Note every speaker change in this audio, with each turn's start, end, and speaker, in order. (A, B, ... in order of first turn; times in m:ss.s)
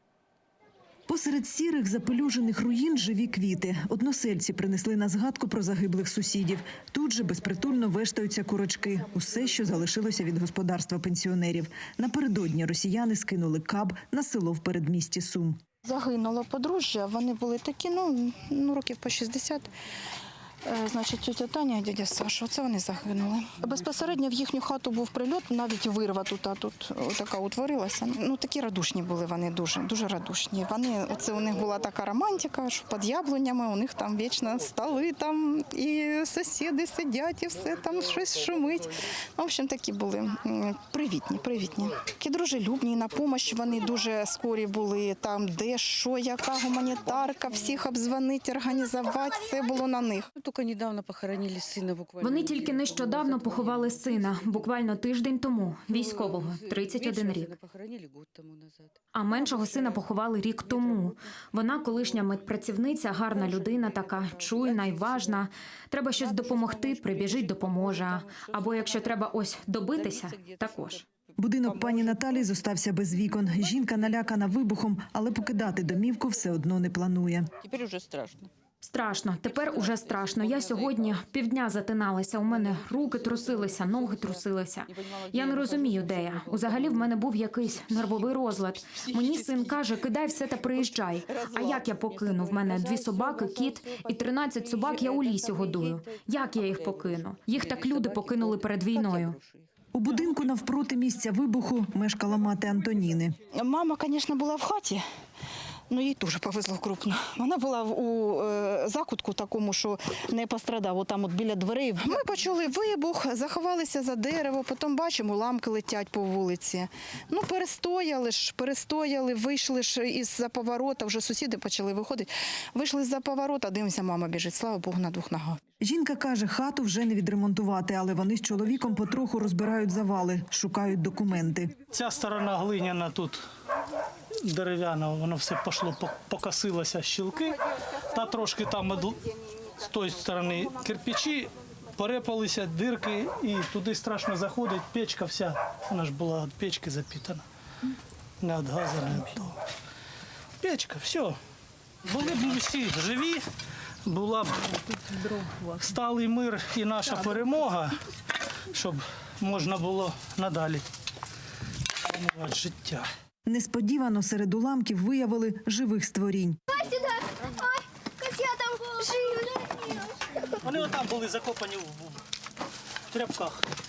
0:01.1-0:15.6 A
0:15.8-0:19.7 B
0:20.6-0:50.3 B
0:50.4-0:54.9 C
0:52.2-0:57.6 D
0:55.9-1:00.0 C
0:59.1-1:11.0 D
1:00.7-1:01.3 C
1:01.9-1:02.4 C
1:03.2-1:05.4 C
1:06.2-1:09.3 C
1:09.9-1:12.6 C
1:11.4-1:17.5 A
1:17.6-1:18.5 C
1:18.8-1:39.4 D
1:19.6-1:21.2 C
1:22.5-1:27.1 C
1:27.7-1:28.3 C
1:28.9-1:29.8 C
1:30.7-1:39.7 C
1:39.9-1:43.4 A
1:43.5-1:45.0 B
1:45.9-2:05.6 B
2:05.8-2:11.7 A
2:11.9-2:13.4 E
2:14.4-2:27.4 E
2:28.4-2:29.6 E
2:30.6-2:31.4 E
2:32.0-2:33.4 E
2:34.0-2:38.0 E
2:38.7-2:40.8 E
2:42.0-2:43.1 E
2:43.4-2:46.6 A
2:46.9-2:50.2 F
2:50.4-2:52.2 E
2:53.1-2:53.6 E